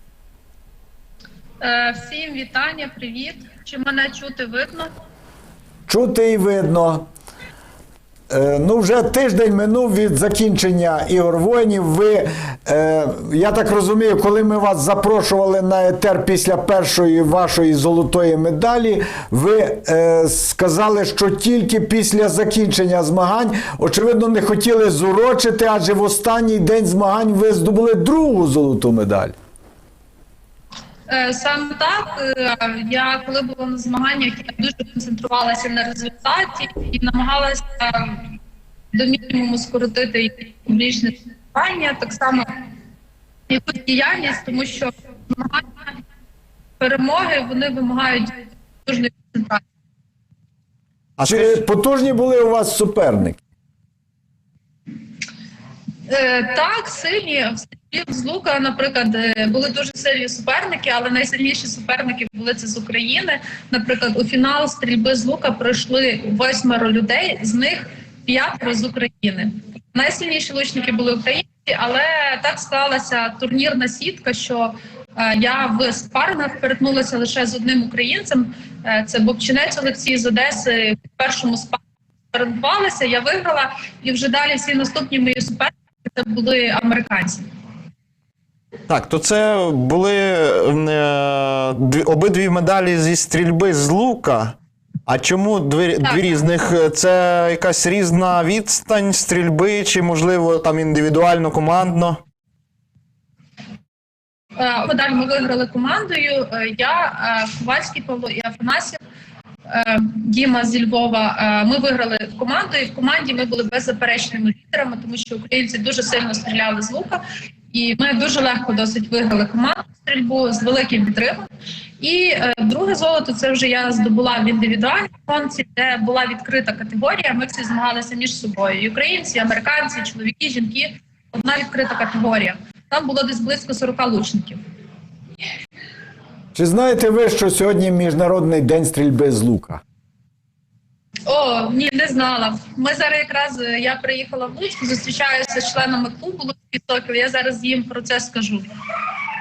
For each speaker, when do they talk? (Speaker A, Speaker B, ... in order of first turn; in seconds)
Speaker A: 1.6-4.9, 31.1-38.2, 38.9-42.5, 43.5-46.0, 46.8-49.6, 56.1-81.8, 82.3-87.4, 104.6-109.0, 109.7-121.5, 122.0-134.6, 141.2-148.7
Speaker B: 5.9-7.1, 8.3-29.3, 51.2-53.4, 136.5-139.8
Speaker C: 51.2-51.6, 88.9-94.5, 95.1-102.2